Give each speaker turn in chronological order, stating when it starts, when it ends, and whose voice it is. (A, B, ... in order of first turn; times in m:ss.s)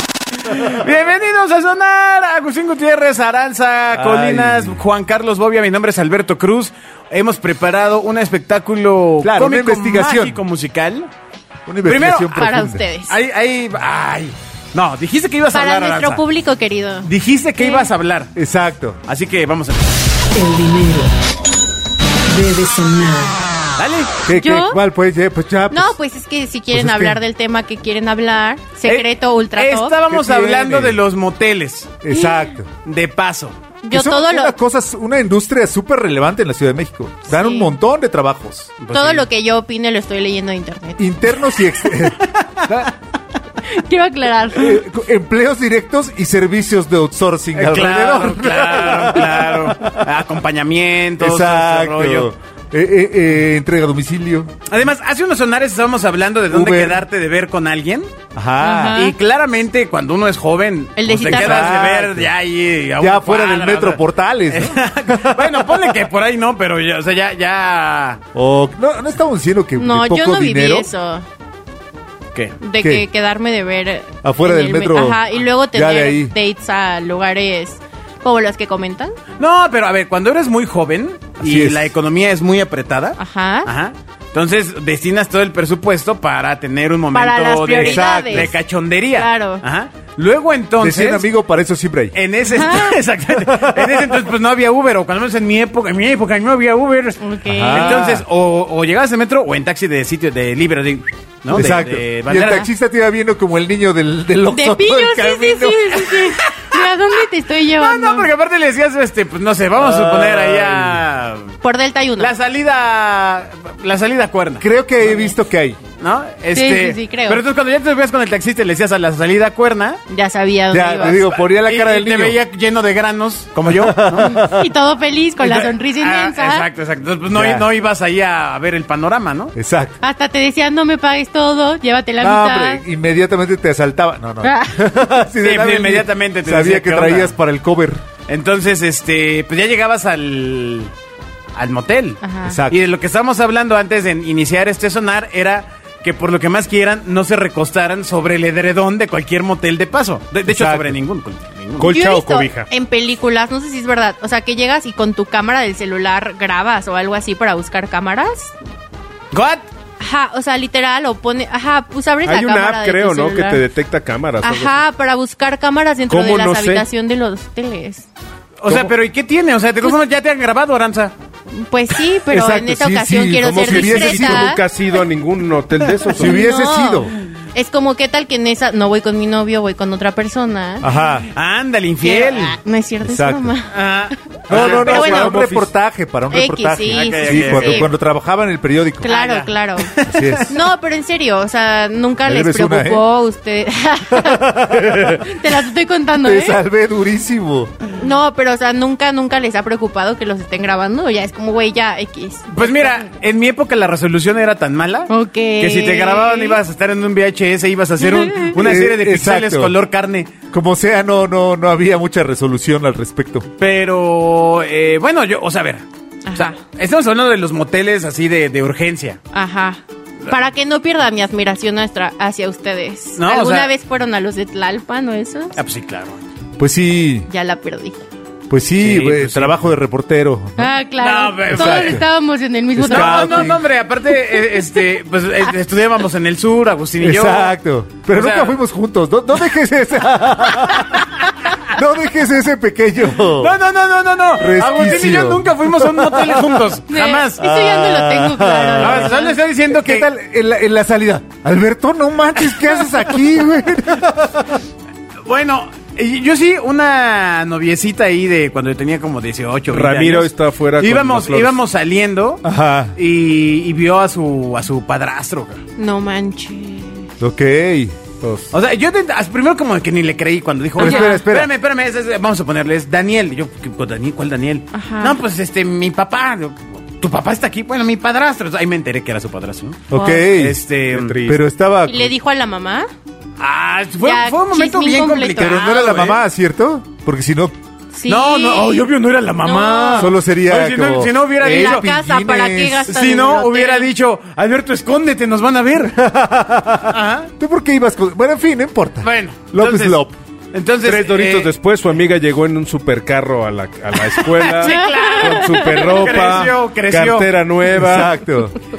0:00.4-0:11.1 A
0:03.9-0:04.8 B
0:09.2-0:10.4 B
0:11.7-0:12.8 B
0:11.9-0:12.5 A
0:12.3-0:13.1 C
0:13.1-0:16.2 A
0:15.5-0:17.9 C
0:17.0-0:18.3 A
0:18.4-0:19.0 B
0:19.1-0:20.0 A
0:20.3-0:21.1 D
0:22.3-0:23.4 D
0:23.8-0:24.1 A
0:24.2-0:26.0 B
0:24.3-0:24.8 C
0:25.7-0:30.0 C
0:26.7-0:27.2 B
0:28.8-0:32.0 A
0:30.1-0:31.0 B
0:32.0-0:32.7 B
0:32.1-0:32.5 C
0:32.8-0:33.6 A
0:33.8-0:34.6 C
0:33.9-0:38.7 B
0:37.3-0:37.7 C
0:38.8-0:39.3 A
0:38.9-0:41.3 C
0:41.0-0:42.9 B
0:43.7-0:44.8 C
0:44.5-0:50.2 B
0:47.6-0:52.3 A
0:51.2-0:54.5 B
0:54.7-0:58.1 A
0:56.5-0:57.0 B
0:58.4-0:59.0 B
0:58.6-0:59.2 C
0:59.0-1:08.2 A
1:01.0-1:01.8 C
1:01.2-1:02.3 B
1:03.0-1:06.0 B
1:08.3-1:10.9 B
1:09.8-1:11.2 C
1:12.6-1:19.2 C
1:12.8-1:13.1 B
1:14.2-1:16.3 B
1:19.4-1:31.3 A
1:21.4-1:21.9 B
1:23.2-1:23.7 C
1:27.1-1:28.6 C
1:27.8-1:28.5 B
1:29.2-1:29.6 C
1:30.8-1:32.2 B
1:32.1-1:42.7 A
1:32.5-1:33.0 C
1:33.5-1:34.2 B
1:37.2-1:38.2 C
1:37.5-1:38.2 B
1:41.5-1:46.1 B
1:44.5-1:48.3 C
1:47.8-1:51.5 A
1:49.8-1:51.0 B
1:51.6-1:52.3 C
1:52.2-1:54.7 A
1:54.6-1:55.8 B
1:55.0-1:55.3 C
1:56.0-2:00.0 A
1:56.5-1:57.4 C
2:00.1-2:01.4 C
2:00.7-2:02.4 B
2:01.5-2:04.4 A
2:03.7-2:04.7 B
2:04.2-2:06.7 C
2:05.4-2:09.6 A
2:07.3-2:07.6 B
2:09.6-2:10.0 B
2:10.0-2:12.8 C
2:12.2-2:18.0 B
2:14.4-2:14.8 C
2:15.4-2:17.3 A
2:18.3-2:20.9 A
2:21.6-2:32.0 A
2:22.2-2:22.6 C
2:22.4-2:22.8 B
2:30.5-2:31.0 B
2:31.8-2:32.7 E
2:31.8-2:38.6 C
2:39.3-2:39.6 A
2:40.0-2:43.6 C
2:42.2-2:44.8 E
2:44.4-2:48.1 C
2:46.1-2:46.9 E
2:48.6-2:51.1 A
2:48.7-2:48.9 E
2:51.5-2:54.6 C
2:52.3-2:54.6 B
2:53.4-2:56.4 E
2:56.1-2:57.1 B
2:56.2-3:00.9 C
3:00.8-3:01.3 B
3:01.3-3:02.6 A
3:02.0-3:03.7 C
3:03.0-3:03.6 B
3:03.7-3:05.0 A
3:04.5-3:05.7 E
3:04.5-3:09.1 B
3:04.8-3:05.4 C
3:06.3-3:07.9 C
3:06.9-3:07.9 A
3:09.0-3:09.9 C
3:09.0-3:10.5 A
3:10.1-3:10.5 B
3:10.5-3:16.6 C
3:12.3-3:13.0 B
3:14.1-3:15.4 B
3:16.2-3:17.7 B
3:18.0-3:23.0 C
3:22.5-3:30.3 A
3:25.1-3:26.6 C
3:28.0-3:28.5 C
3:28.5-3:29.8 B
3:30.5-3:33.5 B
3:33.6-3:39.2 A
3:36.3-3:36.6 C
3:39.3-3:45.6 C
3:43.2-3:43.7 A
3:45.6-3:46.2 A
3:46.6-3:47.3 B
3:47.3-3:48.0 C
3:48.5-3:50.7 B
3:48.8-3:49.6 A
3:50.6-3:53.5 C
3:51.0-3:52.0 A
3:51.5-3:52.0 B
3:52.8-3:53.6 B
3:52.9-3:57.5 A
3:57.0-4:01.0 B
3:58.1-3:58.6 A
4:00.7-4:01.0 A
4:01.7-4:03.5 B
4:03.2-4:07.5 A
4:04.4-4:06.6 B
4:06.9-4:09.4 C
4:07.4-4:14.6 B
4:08.8-4:10.1 A
4:15.2-4:25.6 A
4:19.7-4:21.6 E
4:22.4-4:23.0 B
4:25.8-4:27.1 C
4:27.2-4:28.0 B
4:28.2-4:28.5 E
4:28.5-4:41.3 A
4:30.8-4:31.2 C
4:30.8-4:31.5 B
4:34.7-4:35.2 C
4:39.9-4:40.6 B
4:39.9-4:40.3 C
4:40.9-4:41.4 E
4:41.2-4:42.1 B
4:41.9-4:42.9 C
4:43.4-4:46.2 A
4:44.0-4:45.6 C
4:45.4-4:47.6 B
4:47.9-4:48.9 C
4:48.1-4:51.9 A
4:49.4-4:50.1 C
4:50.0-4:52.9 B
4:51.4-4:53.9 C
4:52.9-4:56.0 A
4:56.0-5:00.2 B
4:56.9-4:57.3 A
4:59.0-5:01.5 A
5:00.8-5:08.1 E
5:04.0-5:07.3 A
5:04.6-5:06.2 C
5:07.7-5:08.6 B